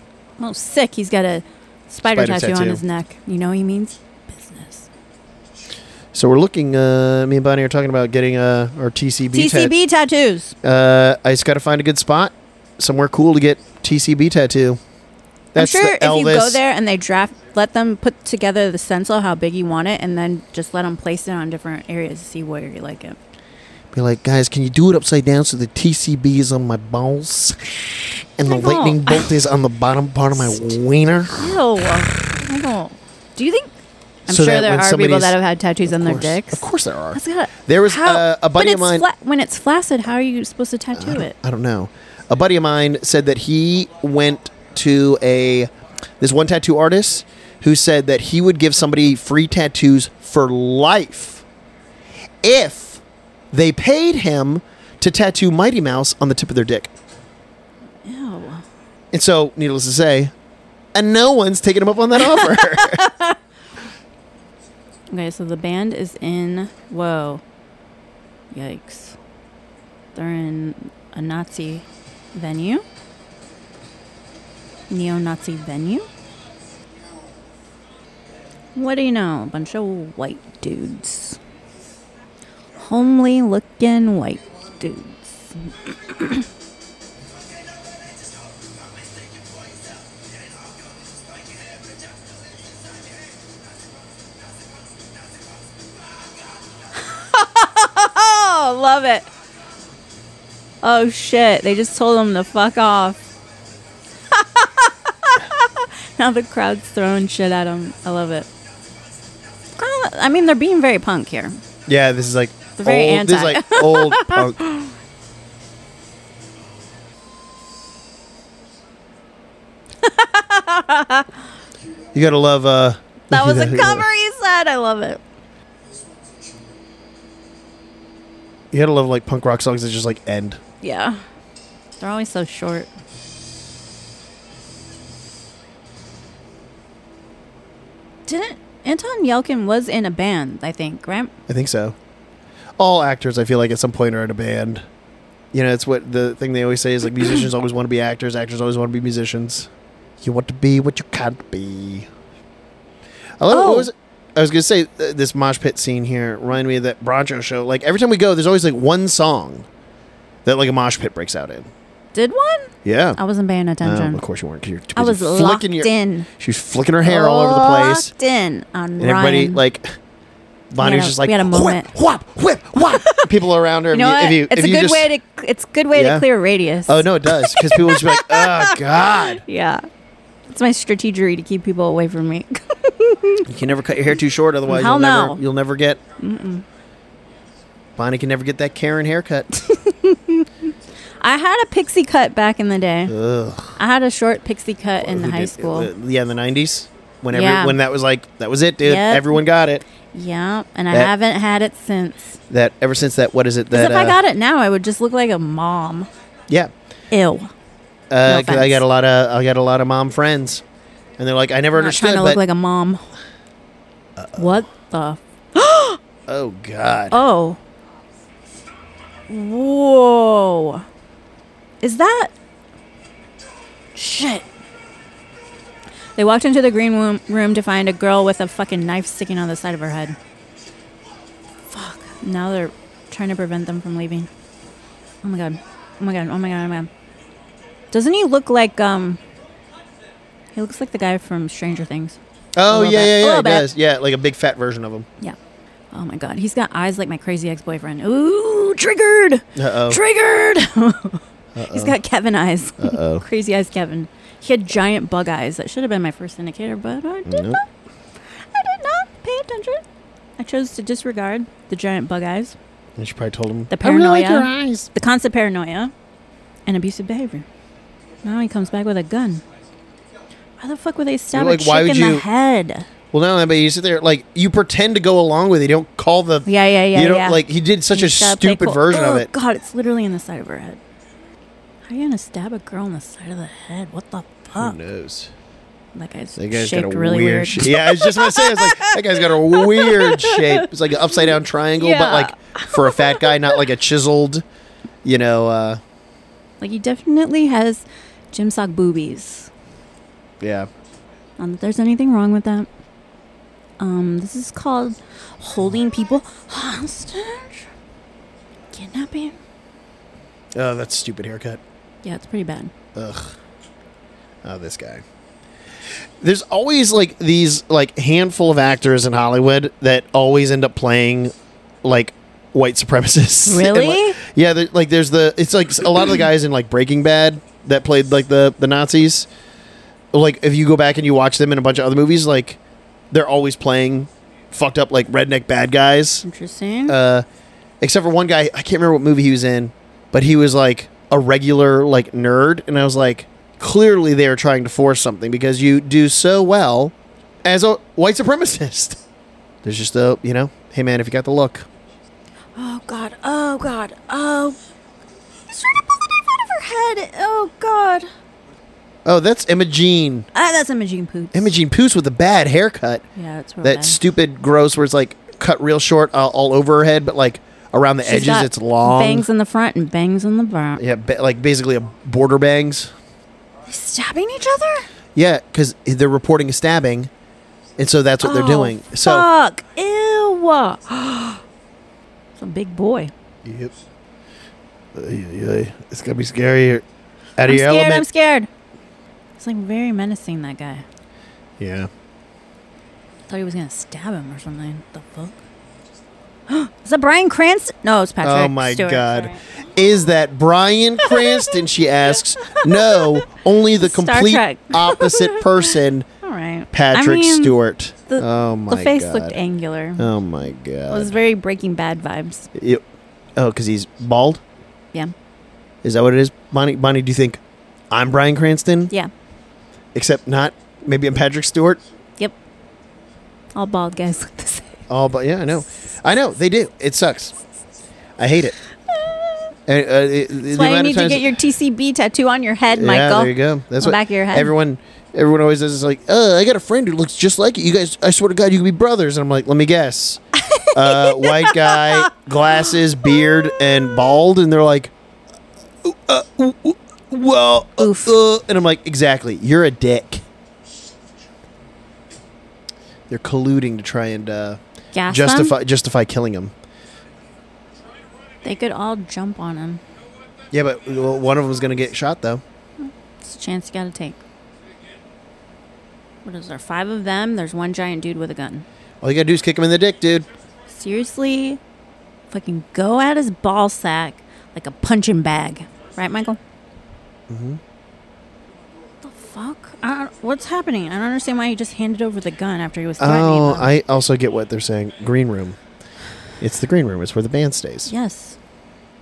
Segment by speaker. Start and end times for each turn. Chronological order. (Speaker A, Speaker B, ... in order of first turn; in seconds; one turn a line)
Speaker A: 0.4-4.9
Speaker B: 2.0-2.8
Speaker B: 6.1-9.7
Speaker A: 9.3-10.6
Speaker B: 10.6-14.8
Speaker B: 15.5-16.6
Speaker A: 15.6-23.2
Speaker B: 23.9-31.6
Speaker A: 28.5-29.4
Speaker A: 31.3-33.8
Speaker A: 34.3-41.4
Speaker B: 34.3-39.1
Speaker B: 40.9-45.7
Speaker B: 46.2-51.4
Speaker B: 52.4-56.9
Speaker A: 58.0-58.6
Speaker B: 59.1-60.3
Speaker B: 61.0-63.1
Speaker A: 62.2-63.4
Speaker A: 65.1-67.4
Speaker A: 68.5-69.2
Speaker A: 70.2-72.8
Speaker A: 74.9-76.1
Speaker A: 78.8-81.4
Speaker A: 82.8-86.5
Speaker A: 97.0-99.3
Speaker A: 100.8-103.2
Speaker A: 104.3-108.5
Speaker A: 109.8-111.6
Speaker B: 111.9-114.6
Speaker A: 112.8-115.0
Speaker A: 120.0-121.3
Speaker B: 122.1-124.1
Speaker A: 123.3-125.2
Speaker B: 128.7-130.6
Speaker A: 130.8-131.2
Speaker A: 132.0-132.9
Speaker A: 138.3-141.3
Speaker B: 141.5-142.0
Speaker B: 142.8-144.8
Speaker B: 145.5-149.7
Speaker B: 150.2-152.1
Speaker B: 153.4-159.7
Speaker A: 153.5-153.9
Speaker B: 160.4-161.7
Speaker A: 162.2-164.2
Speaker B: 162.8-163.2
Speaker B: 163.8-168.1
Speaker A: 164.9-166.3
Speaker A: 167.0-169.6
Speaker B: 169.0-169.9
Speaker B: 170.7-175.1
Speaker A: 170.8-171.9
Speaker A: 172.8-173.3
Speaker A: 173.9-179.8
Speaker B: 175.9-176.3
Speaker B: 176.9-179.4
Speaker A: 180.5-183.5
Speaker B: 183.5-186.0
Speaker A: 184.7-185.4
Speaker A: 186.2-186.7
Speaker B: 188.0-189.5
Speaker A: 189.5-190.7
Speaker A: 191.2-193.2
Speaker B: 193.1-193.8
Speaker A: 193.8-195.9
Speaker B: 195.0-199.8
Speaker A: 197.3-197.8
Speaker A: 198.8-199.4
Speaker A: 200.1-202.4
Speaker B: 202.5-204.2
Speaker A: 203.7-206.1
Speaker A: 207.1-207.5
Speaker B: 208.1-210.6
Speaker A: 208.3-208.8
Speaker B: 211.2-212.4
Speaker A: 211.7-213.1
Speaker B: 214.2-214.6
Speaker A: 214.4-216.0
Speaker B: 216.3-217.2
Speaker A: 217.1-217.6
Speaker A: 219.3-220.9
Speaker A: 221.8-222.3
Speaker A: 223.9-224.5
Speaker A: 226.2-230.2
Speaker A: 231.7-234.3
Speaker A: 235.2-236.9
Speaker A: 237.9-239.2
Speaker A: 240.6-243.7
Speaker B: 242.6-245.1
Speaker A: 245.9-257.7
Speaker B: 249.6-250.0
Speaker B: 251.6-252.0
Speaker B: 252.8-253.2
Speaker B: 257.3-257.6
Speaker A: 258.3-259.8
Speaker A: 260.4-262.6
Speaker B: 263.0-264.9
Speaker A: 263.7-265.9
Speaker A: 266.7-267.5
Speaker A: 268.2-269.4
Speaker A: 270.6-272.9
Speaker B: 271.3-272.2
Speaker B: 273.1-279.3
Speaker A: 276.5-277.4
Speaker A: 277.9-280.8
Speaker A: 281.9-284.8
Speaker B: 284.6-285.3
Speaker A: 285.9-293.6
Speaker B: 286.4-294.4
Speaker B: 295.0-295.8
Speaker A: 296.6-299.5
Speaker B: 300.4-300.7
Speaker A: 301.4-302.7
Speaker A: 303.8-307.7
Speaker A: 308.7-309.4
Speaker B: 310.6-311.6
Speaker A: 312.0-312.7
Speaker B: 312.9-313.4
Speaker B: 314.4-315.0
Speaker B: 316.2-321.3
Speaker B: 321.8-329.3
Speaker A: 323.5-324.2
Speaker B: 330.1-332.6
Speaker B: 333.1-336.3
Speaker A: 336.2-337.0
Speaker B: 336.9-337.2
Speaker B: 337.8-346.9
Speaker B: 347.4-349.0
Speaker B: 349.6-351.7
Speaker A: 352.6-354.6
Speaker A: 355.5-358.1
Speaker B: 359.1-360.3
Speaker A: 360.3-361.5
Speaker B: 361.3-363.0
Speaker A: 363.2-364.0
Speaker B: 363.6-369.3
Speaker A: 368.0-370.8
Speaker B: 370.8-372.9
Speaker A: 373.7-374.9
Speaker B: 375.1-377.1
Speaker B: 377.8-379.3
Speaker A: 378.2-381.4
Speaker A: 382.4-383.1
Speaker B: 383.4-383.7
Speaker B: 384.9-386.9
Speaker B: 387.4-388.1
Speaker A: 387.5-388.5
Speaker A: 389.4-390.9
Speaker B: 391.6-391.9
Speaker A: 393.3-395.4
Speaker A: 396.5-399.4
Speaker B: 398.2-406.1
Speaker A: 401.0-401.6
Speaker A: 402.4-403.3
Speaker A: 403.8-407.5
Speaker B: 406.7-409.4
Speaker A: 408.1-410.1
Speaker B: 410.0-411.2
Speaker A: 410.9-412.5
Speaker B: 412.6-412.8
Speaker B: 413.4-414.4
Speaker B: 415.8-418.9
Speaker B: 419.9-421.8
Speaker A: 423.6-424.8
Speaker B: 424.9-427.4
Speaker B: 428.2-428.6
Speaker A: 428.9-429.5
Speaker B: 429.7-431.4
Speaker A: 430.5-434.5
Speaker B: 432.7-444.9
Speaker A: 440.3-444.1
Speaker B: 445.8-450.2
Speaker A: 447.8-448.2
Speaker B: 453.1-456.5
Speaker A: 454.9-455.6
Speaker A: 458.4-459.8
Speaker B: 460.5-462.4
Speaker A: 462.8-464.2
Speaker A: 466.2-468.6
Speaker B: 469.0-470.3
Speaker A: 470.7-471.6
Speaker A: 472.3-476.4
Speaker B: 477.3-477.6
Speaker A: 479.0-483.7
Speaker B: 483.0-485.6
Speaker B: 486.4-487.9
Speaker A: 487.9-488.4